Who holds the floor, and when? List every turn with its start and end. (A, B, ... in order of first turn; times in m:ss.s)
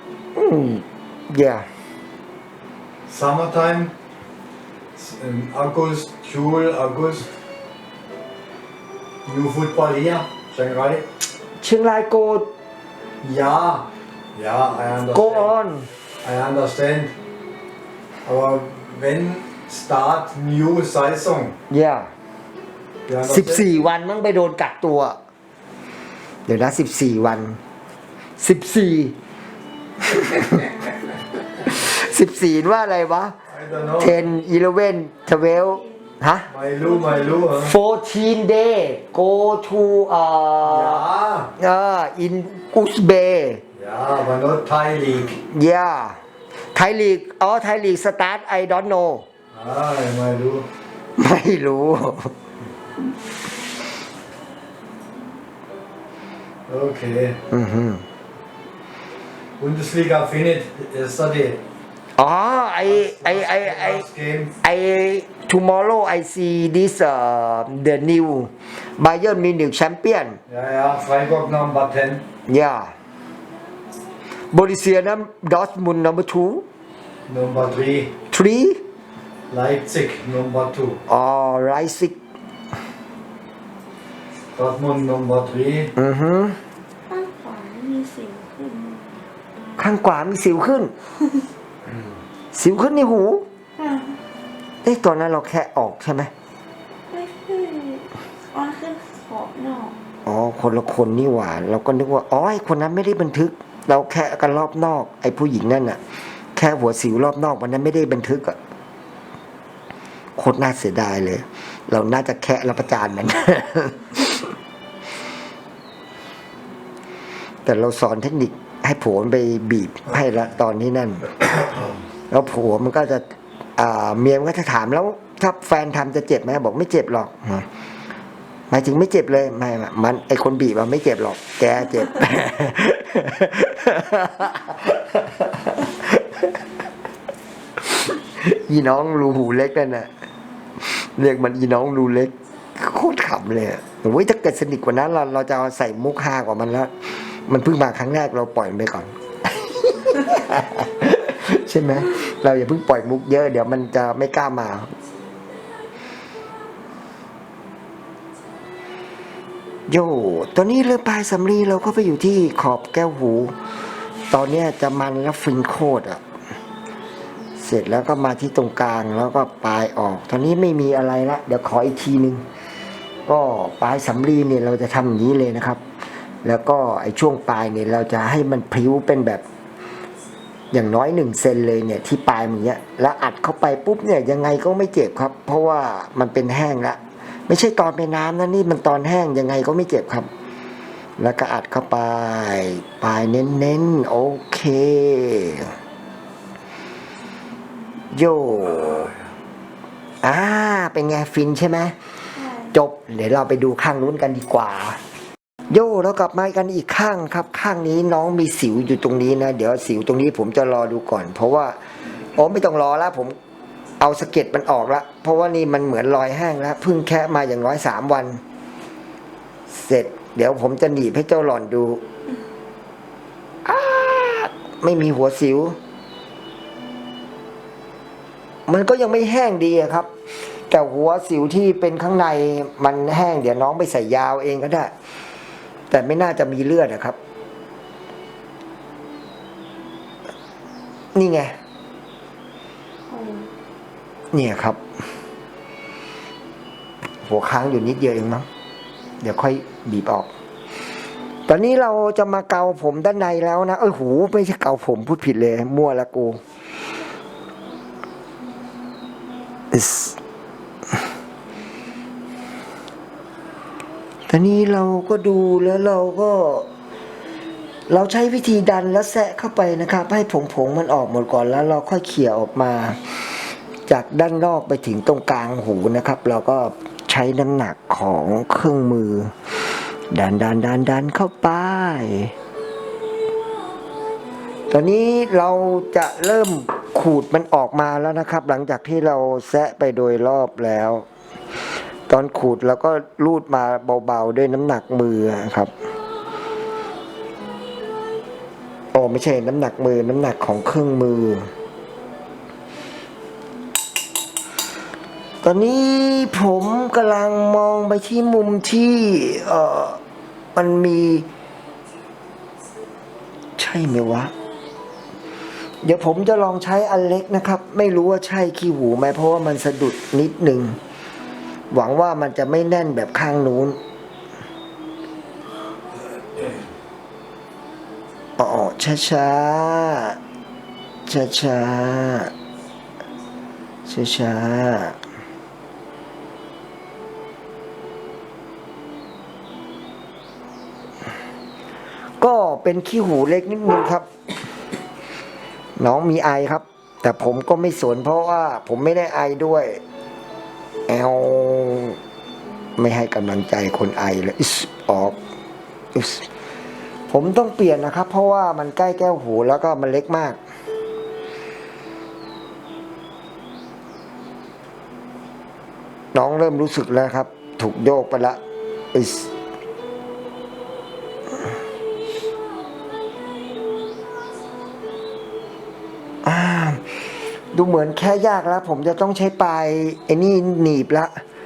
0:00.3-0:01.6 A
0:03.1-0:03.9 B
0:04.9-0:07.3 B
0:09.2-0:11.0 B
0:11.6-0:12.5 A
0:13.2-0:15.5 B
0:15.1-0:15.9 A
0:16.2-0:17.1 B
0:18.2-0:21.6 B
0:21.7-0:22.1 A
0:23.1-0:23.7 B
0:23.2-0:25.2 A
0:26.5-0:27.6 A
0:28.4-0:29.1 A
0:30.1-0:30.9 A
0:31.5-0:33.4 A
0:33.4-0:34.2 B
0:34.0-0:36.5 A
0:36.5-0:37.7 B
0:36.8-0:37.4 C
0:37.5-0:41.0 A
0:40.6-0:41.5 B
0:41.6-0:43.6 A
0:43.7-0:45.4 B
0:45.4-0:46.2 A
0:46.7-0:49.2 A
0:49.5-0:50.7 B
0:51.2-0:52.3 A
0:56.7-0:57.4 B
0:57.5-0:58.0 A
0:59.6-1:01.6 B
1:02.2-1:04.0 A
1:02.9-1:04.5 B
1:04.6-1:10.4 A
1:10.5-1:12.2 B
1:12.5-1:12.9 A
1:14.5-1:16.6 A
1:17.3-1:18.1 B
1:18.3-1:18.8 A
1:19.5-1:21.0 B
1:21.1-1:22.2 A
1:24.5-1:25.9 B
1:26.0-1:26.6 A
1:27.1-1:29.2 C
1:29.8-1:30.9 A
1:32.5-1:33.5 A
1:33.8-1:34.2 C
1:34.8-1:36.3 A
1:37.1-1:39.9 C
1:40.2-1:46.0 A
1:46.6-1:48.6 A
1:50.4-1:54.5 A
1:57.6-2:01.4 A
2:02.3-2:07.7 A
2:08.7-2:16.6 A
2:17.9-2:20.1 A
2:20.9-2:26.9 A
2:27.5-2:34.9 A
2:39.9-2:43.5 A
2:44.3-2:46.2 A
2:47.6-2:52.4 A
2:53.2-2:55.8 A
2:56.4-2:59.4 A
3:00.7-3:10.3 A
3:11.2-3:15.7 A
3:18.1-3:19.1 A
3:20.2-3:21.9 A
3:22.3-3:22.7 C
3:22.7-3:25.0 A
3:25.7-3:33.4 A
3:34.0-3:38.4 A
3:39.7-3:42.0 A
3:43.6-3:45.8 A
3:48.7-3:50.1 A
3:50.7-3:54.9 A
3:55.9-3:57.2 A
4:01.1-4:01.6 A
4:03.1-4:03.5 C
4:04.3-4:04.8 A
4:07.2-4:08.5 A
4:09.2-4:10.3 A
4:11.5-4:16.4 A
4:19.7-4:20.2 A
4:24.3-4:26.7 A
4:27.9-4:33.0 A
4:33.9-4:39.3 A
4:40.1-4:42.3 A
4:44.7-4:51.0 A
4:52.1-4:55.7 A
4:58.9-5:01.5 A
5:05.4-5:10.0 A
5:10.5-5:11.3 A
5:13.6-5:14.3 A
5:15.8-5:20.8 A
5:21.7-5:23.8 A
5:28.4-5:30.2 A
5:31.1-5:32.3 A
5:33.8-5:35.0 A
5:42.2-5:44.1 A
5:45.8-5:49.8 A
5:50.9-5:52.0 A
5:52.8-5:55.2 A
5:55.9-5:56.3 A
5:57.1-6:00.4 A
6:06.1-6:08.4 A
6:08.9-6:09.3 A
6:16.2-6:16.8 A
6:17.5-6:21.2 A